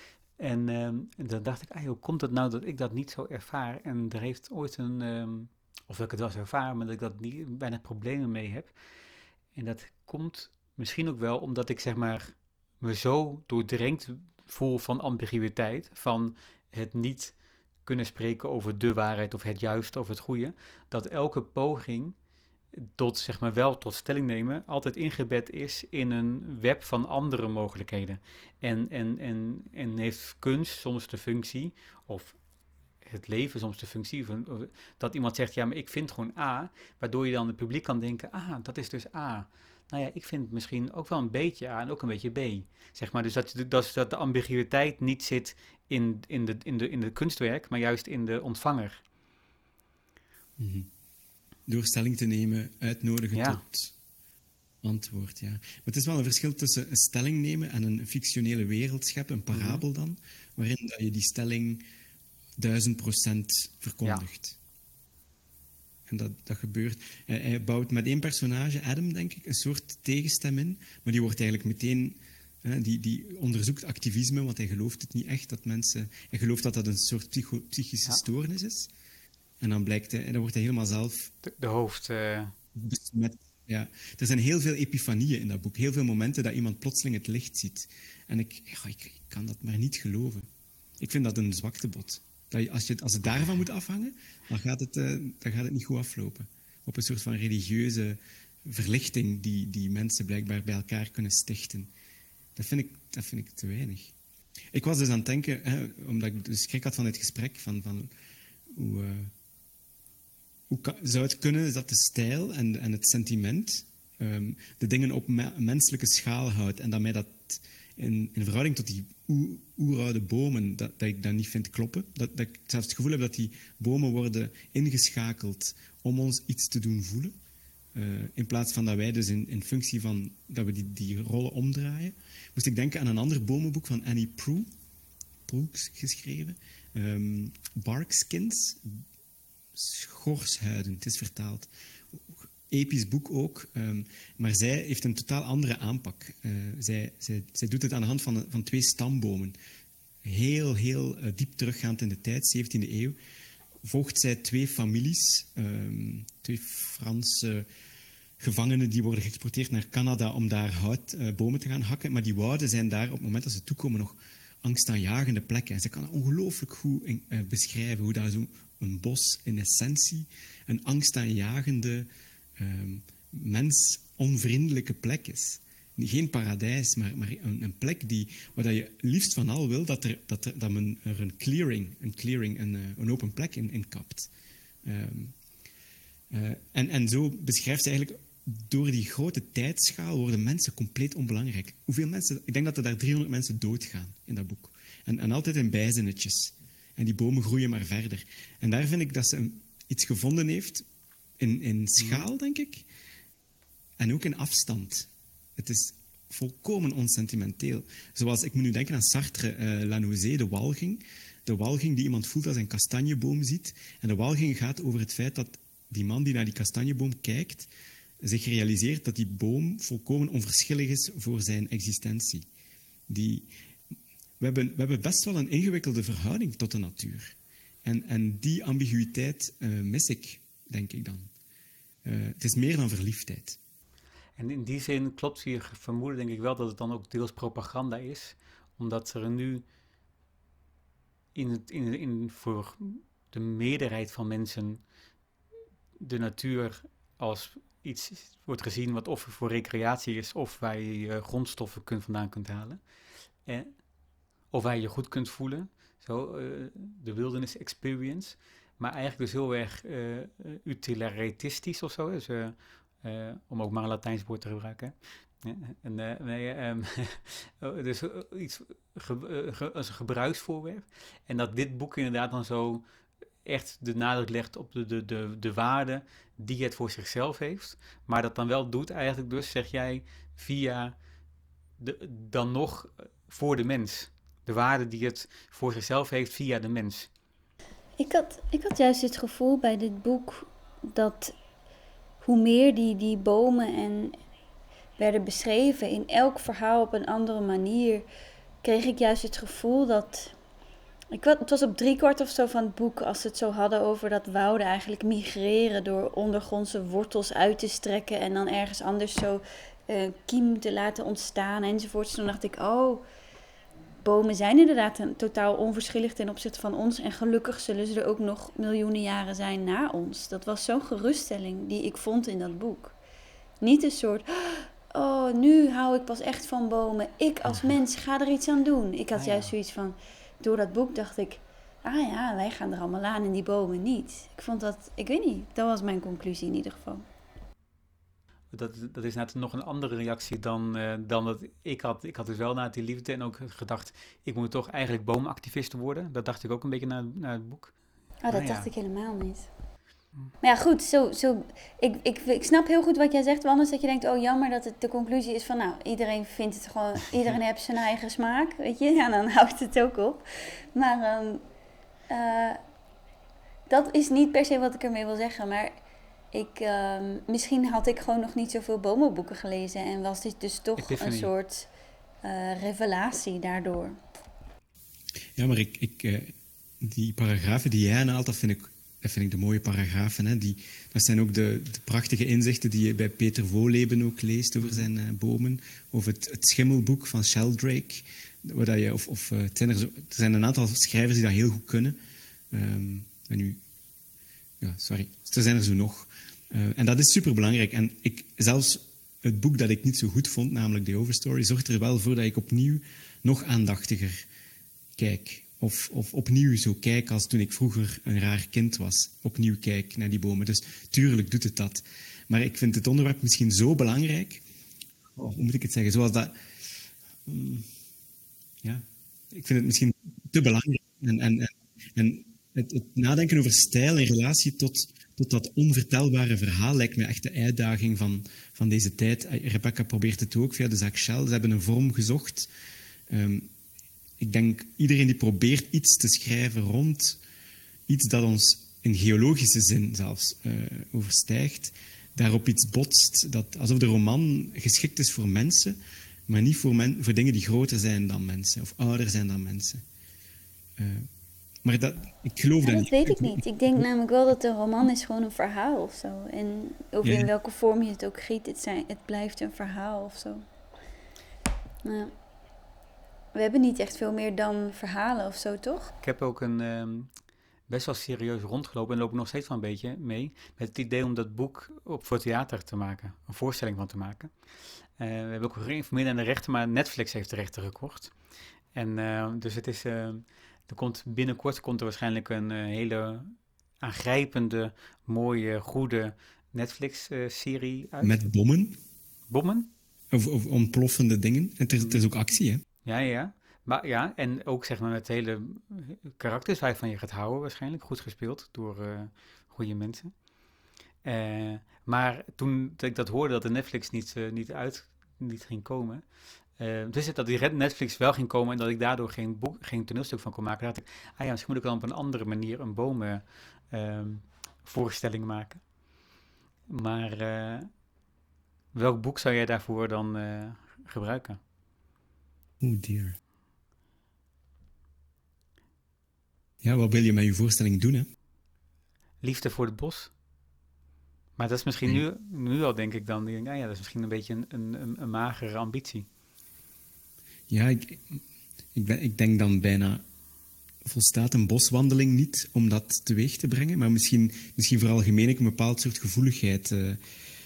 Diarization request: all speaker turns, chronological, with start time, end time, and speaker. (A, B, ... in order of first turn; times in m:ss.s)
0:00.4-0:08.7 A
0:09.5-0:22.2 A
0:22.7-0:32.4 A
0:33.0-0:49.0 A
0:50.6-0:50.9 B
0:51.7-0:53.9 B
0:53.3-0:53.6 A
0:54.8-1:01.8 B
0:59.5-0:59.8 A
1:02.6-1:04.6 B
1:06.1-1:18.9 B
1:19.6-1:21.3 B
1:21.4-1:22.5 A
1:22.7-1:30.5 B
1:31.0-1:41.9 B
1:42.6-1:44.1 B
1:44.7-1:48.1 B
1:48.7-1:49.3 B
1:50.7-2:07.3 B
2:07.9-2:14.7 B
2:15.5-2:19.0 B
2:19.7-2:29.6 B
2:30.2-2:33.2 B
2:33.8-2:37.7 B
2:38.4-3:04.3 B
3:04.8-3:05.3 B
3:06.3-3:20.8 B
3:21.4-3:22.8 B
3:22.0-3:22.2 A
3:24.0-3:37.7 B
3:38.2-3:42.4 B
3:43.1-3:43.5 B
3:44.4-3:51.3 B
3:52.0-3:53.6 B
3:54.4-3:59.6 A
4:01.3-4:04.8 A
4:06.0-4:12.8 A
4:13.4-4:13.8 A
4:14.5-4:32.8 A
4:33.4-4:40.9 A
4:41.8-4:47.1 A
4:48.0-4:51.4 C
4:52.2-4:54.2 C
4:55.0-4:58.0 C
4:58.6-5:00.4 C
5:01.1-5:13.0 C
5:14.0-5:23.0 C
5:23.6-5:37.0 C
5:29.1-5:29.5 A
5:38.5-5:47.7 A
5:48.2-5:49.5 C
5:48.3-5:48.7 A
5:50.4-6:01.4 C
6:02.1-6:02.6 C
6:03.7-6:05.7 C
6:06.3-6:11.7 C
6:10.8-6:11.3 A
6:12.2-6:14.0 C
6:15.4-6:32.0 B
6:32.5-6:33.6 B
6:34.6-6:44.3 B
6:45.0-6:54.4 B
6:55.1-6:56.7 B
6:57.2-6:57.7 B
6:58.6-7:12.5 B
7:13.1-7:13.5 B
7:14.2-7:17.2 B
7:17.9-7:29.8 B
7:30.8-7:31.1 B
7:31.6-7:33.8 B
7:32.6-7:40.4 C
7:37.0-7:37.3 B
7:41.8-7:42.1 C
7:43.3-7:45.9 C
7:46.0-7:47.1 A
7:47.7-7:54.3 A
7:55.0-7:58.1 A
7:58.7-8:08.2 A
8:08.0-8:08.8 B
8:09.3-8:09.7 A
8:10.1-8:12.6 B
8:12.8-8:20.1 A
8:21.0-8:26.0 A
8:26.6-8:35.6 A
8:36.7-8:37.7 A
8:38.7-8:41.4 A
8:42.6-8:43.2 B
8:46.6-8:48.1 B
8:49.2-8:50.1 A
8:51.4-8:56.1 A
8:57.5-8:58.2 B
8:58.7-9:00.0 B
9:00.8-9:07.0 B